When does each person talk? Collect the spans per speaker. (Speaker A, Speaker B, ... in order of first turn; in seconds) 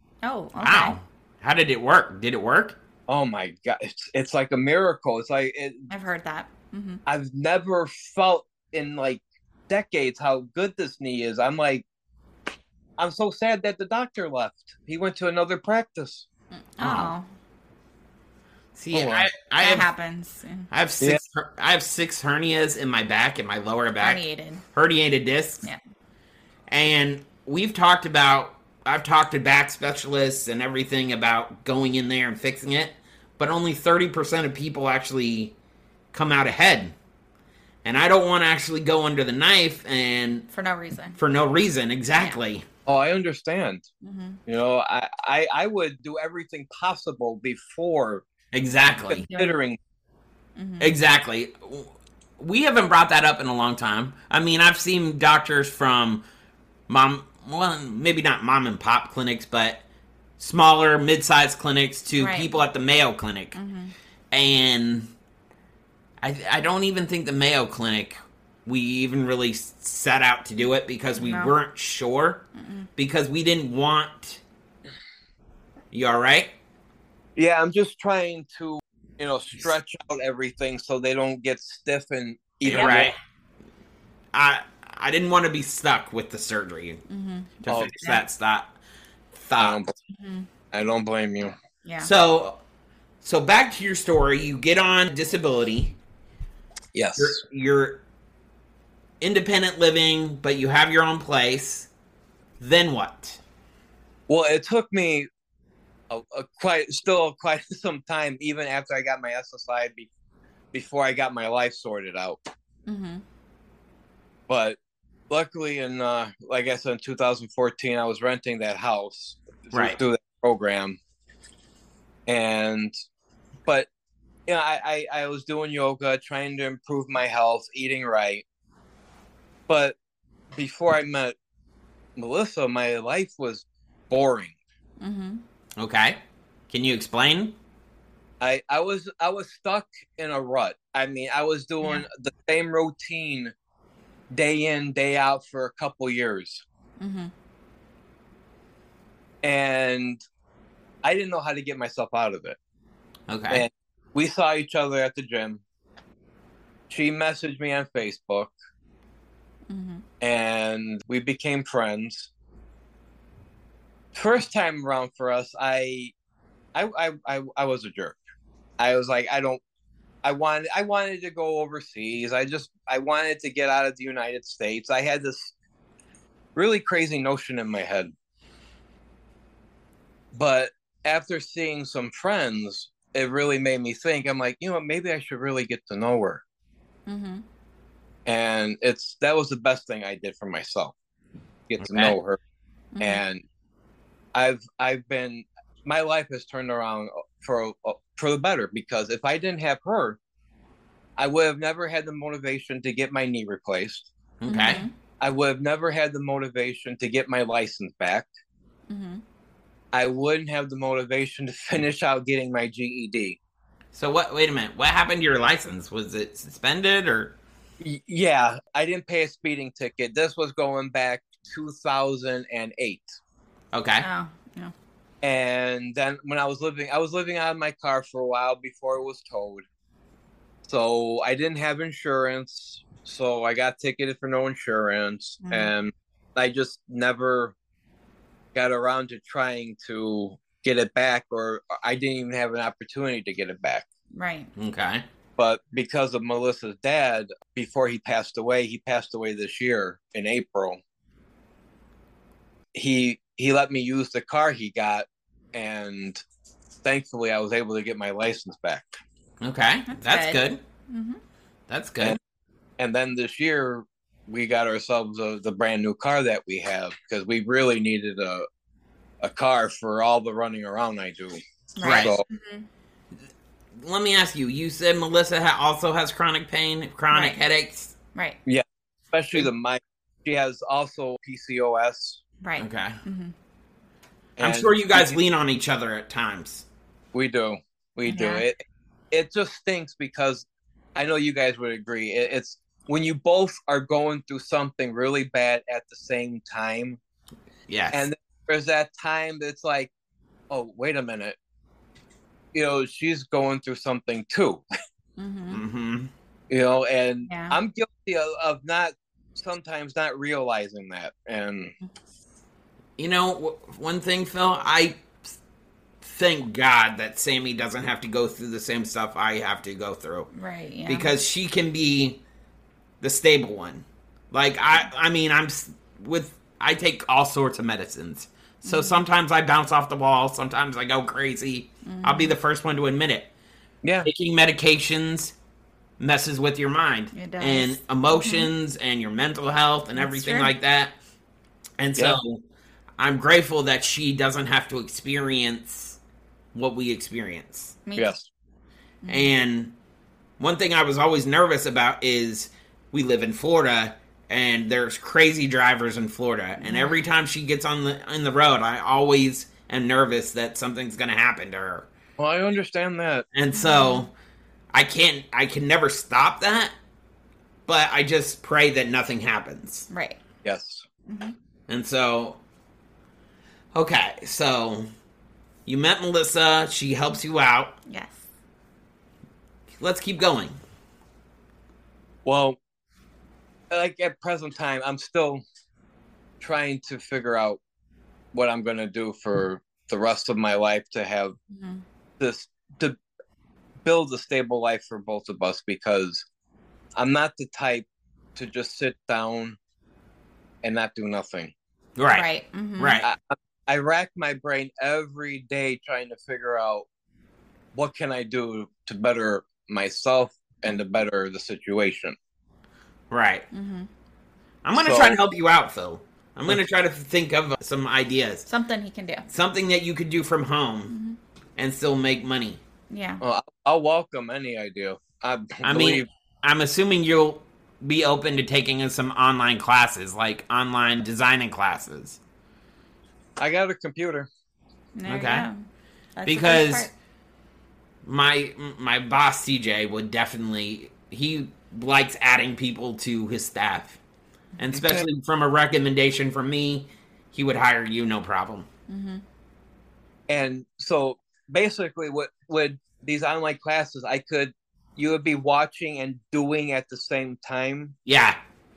Speaker A: 0.2-1.0, 5.9-7.0, 16.7-17.2, 19.6-20.7, 24.0-24.6, 40.5-41.2, 44.0-44.4, 49.2-49.6, 50.6-50.9, 62.1-62.5, 63.5-63.9, 71.2-71.5, 72.6-72.9, 82.7-83.0, 87.1-88.2, 90.1-90.5, 91.8-92.1, 112.9-113.2, 135.0-135.4, 147.0-147.3, 159.7-160.0, 187.1-187.4, 192.9-193.2, 204.5-204.9, 208.9-209.2, 224.0-224.7, 235.4-235.7, 244.1-244.5, 259.9-261.2, 271.8-272.6, 277.1-277.4, 282.4-283.3, 288.1-288.4, 305.2-305.6, 307.3-307.6, 320.3-321.1, 328.6-329.0, 331.8-332.3, 337.1-338.5, 339.9-340.5, 347.9-348.1, 349.0-349.3, 356.6-357.0, 363.5-364.1, 369.9-370.2, 371.1-371.3, 377.9-378.2, 391.5-391.8, 402.1-403.0, 413.5-413.9, 418.5-419.3, 420.9-421.2, 422.9-423.2, 434.9-435.6, 436.1-436.9, 448.9-449.2
Speaker B: 0.6-2.8, 16.8-17.1, 18.8-19.9, 20.7-24.2, 24.7-25.7, 26.7-35.5, 36.1-36.9, 37.8-40.5, 41.1-42.6, 48.5-49.3, 50.8-56.2, 56.9-59.8, 60.4-63.6, 64.3-65.1, 66.2-74.4, 75.9-76.5, 82.6-83.2, 84.3-87.0, 87.6-88.7, 89.3-89.8, 92.0-92.6, 93.2-96.0, 97.2-98.0, 99.2-101.9, 102.6-103.4, 119.7-120.0, 135.8-136.2, 136.7-137.6, 153.3-153.6, 191.8-192.1, 204.4-204.8, 213.9-217.3, 223.7-224.1, 244.6-245.0, 259.4-260.6, 261.7-262.2, 271.8-272.1, 273.8-277.9, 282.6-283.0, 284.4-286.6, 297.7-298.1, 305.5-306.1, 313.0-315.3, 316.0-320.3, 320.9-322.2, 323.0-333.3, 334.0-335.3, 336.0-340.9, 341.8-342.4, 343.0-346.0, 346.5-347.8, 349.1-349.7, 350.4-361.9, 363.3-364.1, 364.7-366.7, 367.7-369.9, 371.7-372.4, 373.7-374.9, 375.6-377.8, 379.8-380.6, 402.0-402.3, 402.8-403.1, 413.1-413.5, 414.6-418.5, 419.3-420.9, 421.6-422.6, 425.6-432.2, 435.1-435.5, 436.2-436.9, 438.1-444.0, 444.6-448.7, 458.1-458.4
Speaker C: 3.1-5.9, 7.0-11.8, 13.0-16.2, 18.9-19.3, 42.9-43.8, 44.5-48.2, 49.1-49.8, 77.3-83.1, 87.7-87.9, 89.6-89.9, 90.7-91.5, 96.9-97.4, 104.3-105.3, 106.1-110.1, 110.7-112.4, 114.5-114.8, 115.3-121.0, 122.3-122.9, 124.5-128.4, 129.7-129.9, 130.5-131.3, 132.2-134.5, 138.4-143.5, 144.3-146.6, 149.4-150.2, 151.0-152.6, 153.5-155.6, 156.9-158.5, 160.2-162.3, 164.1-166.1, 166.7-168.2, 168.8-169.6, 170.2-175.5, 176.5-178.1, 180.3-186.4, 188.2-190.9, 191.7-192.4, 193.0-193.4, 194.3-200.2, 201.2-204.1, 205.2-208.3, 209.9-213.4, 217.8-223.2, 225.2-229.7, 230.7-237.5, 238.5-243.8, 245.4-250.8, 252.7-256.2, 256.8-259.0, 262.8-268.4, 269.2-272.2, 278.4-282.2, 284.4-285.2, 287.1-297.0, 297.9-299.9, 300.5-301.4, 302.5-304.6, 306.5-311.7, 333.8-334.1, 348.0-348.3, 362.2-363.2, 370.4-370.8, 382.2-382.6, 383.7-385.4, 386.4-387.6, 388.3-391.4, 392.2-393.0, 393.8-396.2, 397.0-399.6, 400.6-401.5, 403.0-406.9, 407.7-412.1, 414.8-415.2, 423.2-426.1, 433.4-434.3, 444.7-445.1, 450.3-458.0